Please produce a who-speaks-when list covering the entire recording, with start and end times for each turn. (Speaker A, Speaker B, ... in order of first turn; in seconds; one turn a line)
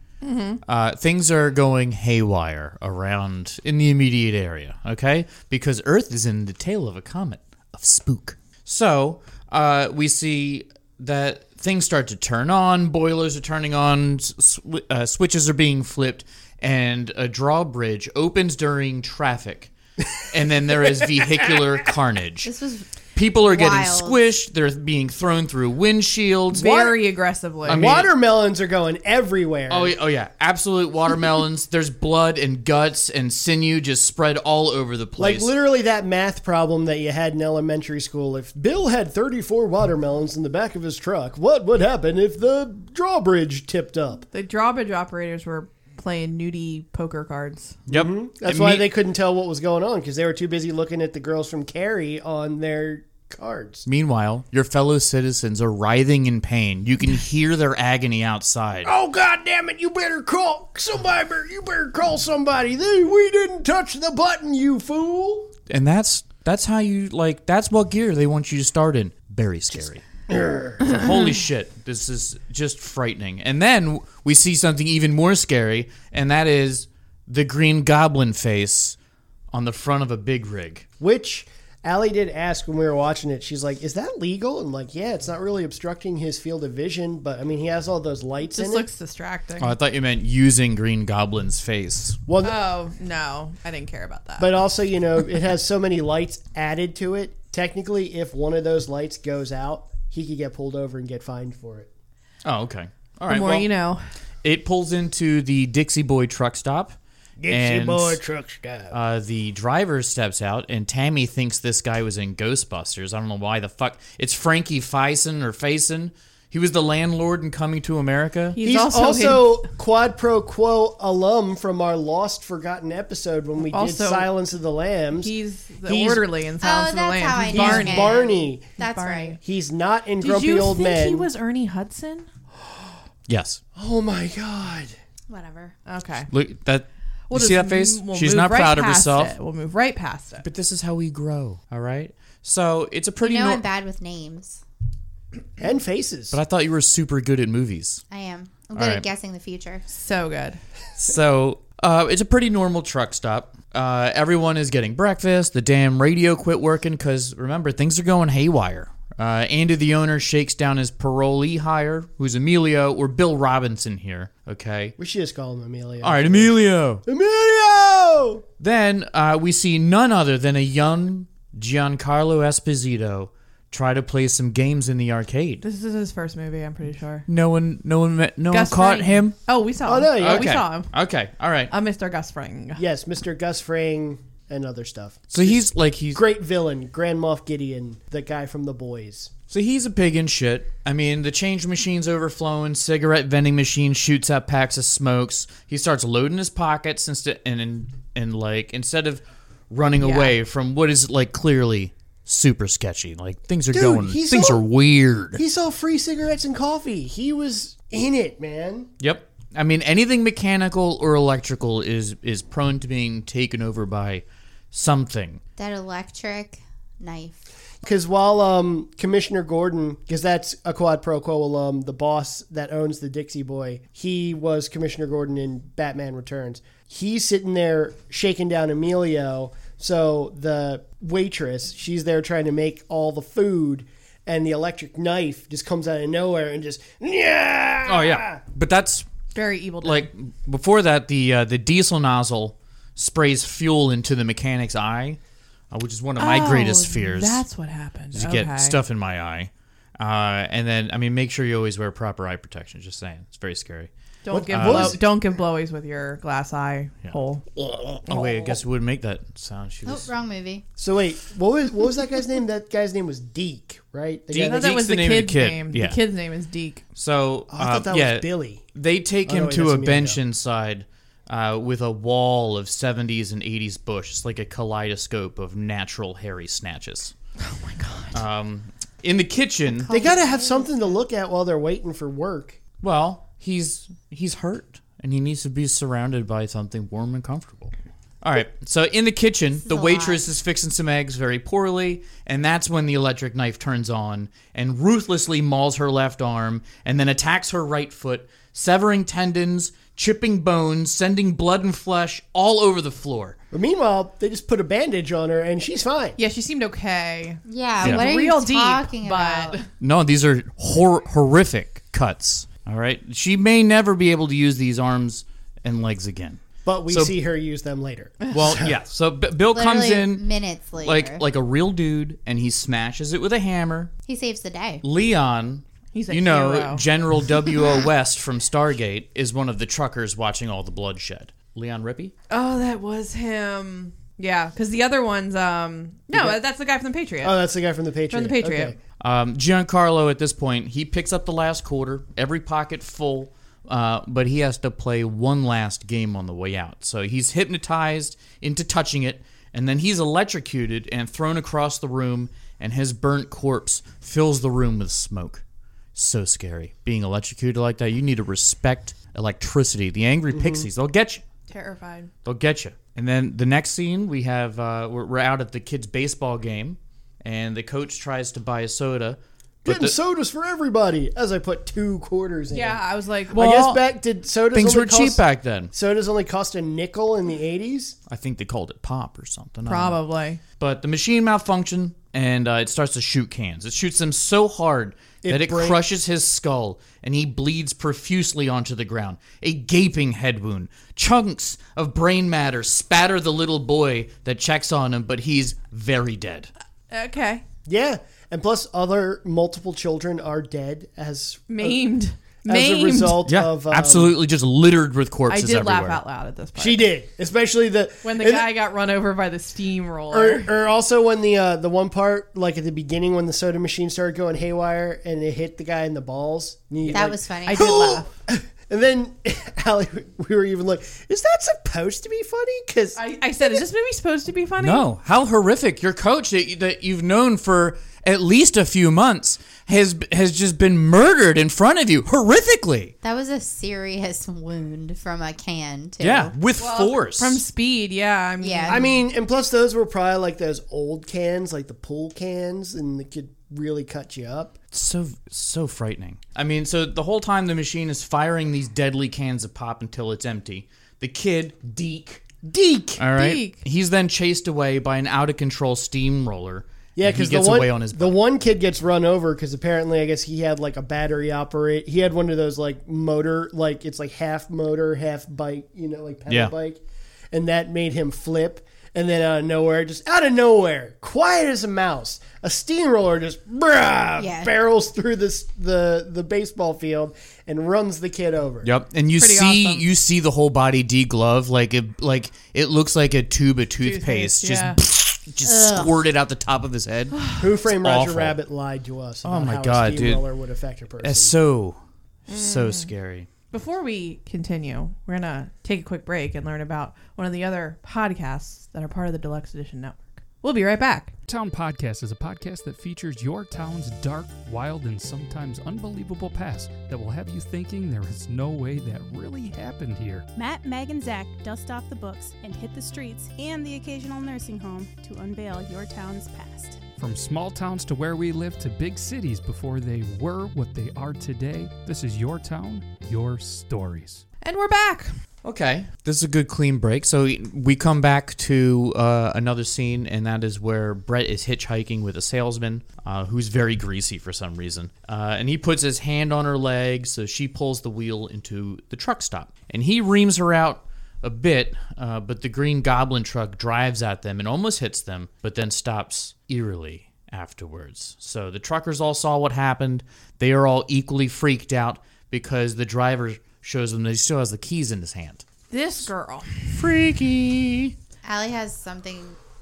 Speaker A: 0.2-0.6
Speaker B: 0.6-22.5
Speaker C: 22.4-22.9
Speaker B: 23.1-27.0
Speaker C: 23.4-24.2
Speaker A: 26.5-27.8
Speaker B: 27.6-28.1
Speaker D: 27.7-30.0
Speaker B: 29.7-35.5
Speaker D: 35.2-44.2
Speaker A: 44.3-47.8
Speaker B: 47.9-48.9
Speaker D: 47.9-53.9
Speaker B: 53.9-58.9
Speaker D: 58.8-65.5
Speaker B: 65.7-70.0
Speaker D: 70.3-70.8
Speaker B: 70.8-79.0
Speaker B: 79.5-80.8
Speaker D: 81.0-88.9
Speaker A: 88.5-89.7
Speaker B: 89.6-92.2
Speaker D: 92.3-92.6
Speaker A: 92.4-94.5
Speaker D: 94.4-101.9
Speaker B: 102.4-103.7
Speaker A: 103.3-104.0
Speaker B: 104.4-107.0
Speaker D: 107.4-109.0
Speaker B: 107.5-108.2
Speaker B: 108.9-118.6
Speaker A: 118.5-119.6
Speaker D: 118.6-126.3
Speaker A: 123.7-124.3
Speaker A: 125.1-128.3
Speaker C: 126.6-129.4
Speaker D: 127.5-128.7
Speaker A: 128.8-129.4
Speaker D: 129.4-131.3
Speaker A: 130.2-132.3
Speaker B: 133.3-133.6
Speaker D: 133.8-134.9
Speaker C: 135.3-135.8
Speaker A: 135.8-136.3
Speaker B: 136.3-139.3
Speaker A: 137.3-140.4
Speaker B: 140.4-143.6
Speaker C: 143.2-144.6
Speaker D: 145.6-146.4
Speaker B: 146.3-148.0
Speaker C: 148.1-149.8
Speaker B: 148.7-149.0
Speaker A: 149.9-150.6
Speaker B: 151.0-164.9
Speaker D: 165.0-166.5
Speaker B: 166.0-167.0
Speaker D: 167.1-168.4
Speaker B: 168.6-175.6
Speaker A: 175.6-177.2
Speaker B: 177.3-179.4
Speaker A: 178.5-180.9
Speaker D: 179.8-180.6
Speaker B: 180.2-181.7
Speaker A: 181.7-182.8
Speaker D: 182.8-189.3
Speaker B: 185.3-186.2
Speaker B: 189.5-205.4
Speaker A: 200.0-200.3
Speaker D: 203.7-204.6
Speaker D: 205.3-208.9
Speaker B: 209.0-215.4
Speaker C: 215.6-217.4
Speaker D: 217.8-238.4
Speaker B: 237.8-239.1
Speaker A: 239.3-240.1
Speaker B: 239.8-245.2
Speaker B: 245.7-247.4
Speaker A: 246.2-248.8
Speaker B: 248.1-253.9
Speaker A: 254.2-257.4
Speaker D: 254.3-255.0
Speaker B: 254.5-255.0
Speaker B: 257.0-260.1
Speaker D: 258.1-258.6
Speaker C: 259.9-260.6
Speaker D: 260.8-264.8
Speaker B: 264.3-266.0
Speaker A: 264.4-266.8
Speaker B: 266.9-277.1
Speaker D: 267.5-268.6
Speaker D: 269.2-270.2
Speaker A: 277.4-278.2
Speaker B: 278.1-279.9
Speaker C: 279.6-281.0
Speaker D: 279.9-282.6
Speaker B: 282.8-303.4
Speaker C: 289.6-290.2
Speaker D: 303.5-306.2
Speaker A: 306.2-309.7
Speaker C: 307.4-309.6
Speaker B: 309.8-317.1
Speaker D: 316.6-318.7
Speaker B: 318.3-320.2
Speaker C: 319.5-321.2
Speaker B: 320.8-323.9
Speaker C: 324.1-324.8
Speaker B: 324.8-332.1
Speaker A: 325.9-326.8
Speaker A: 332.3-337.4
Speaker D: 336.1-336.4
Speaker D: 337.2-338.8
Speaker A: 338.1-338.7
Speaker B: 339.0-355.4
Speaker B: 355.9-361.2
Speaker D: 360.3-360.7
Speaker A: 361.5-362.1
Speaker B: 362.2-369.9
Speaker D: 369.6-378.0
Speaker A: 372.5-373.4
Speaker B: 373.3-373.9
Speaker B: 374.5-375.7
Speaker B: 378.1-380.0
Speaker A: 379.6-380.4
Speaker B: 380.6-396.5
Speaker D: 385.2-385.8
Speaker A: 396.9-397.4
Speaker D: 397.6-401.8
Speaker A: 401.5-403.2
Speaker D: 402.4-404.2
Speaker B: 403.2-406.0
Speaker A: 405.3-406.9
Speaker D: 406.6-408.5
Speaker A: 408.0-410.5
Speaker D: 410.1-423.6
Speaker C: 416.9-418.0
Speaker A: 417.4-418.1
Speaker A: 422.9-424.9
Speaker B: 424.6-432.9
Speaker C: 433.0-436.3
Speaker B: 436.0-437.4
Speaker A: 436.6-438.9
Speaker C: 438.4-438.8
Speaker D: 438.7-444.6
Speaker B: 444.7-452.2
Speaker D: 452.2-453.0
Speaker B: 453.0-458.1
Speaker A: 453.1-453.6
Speaker D: 456.9-466.8
Speaker D: 467.3-478.7
Speaker C: 474.2-474.5
Speaker B: 478.6-488.4
Speaker A: 479.2-479.9
Speaker A: 483.8-484.8
Speaker C: 485.4-486.0
Speaker A: 487.1-487.4
Speaker D: 487.4-491.4
Speaker B: 489.2-490.2
Speaker B: 491.0-493.3
Speaker A: 492.3-492.9
Speaker A: 493.5-501.1
Speaker E: 501.3-510.2
Speaker F: 510.3-516.8
Speaker E: 517.0-524.2
Speaker A: 524.4-525.1
Speaker B: 525.4-555.4
Speaker A: 555.7-556.8
Speaker B: 556.7-557.9
Speaker C: 558.2-559.4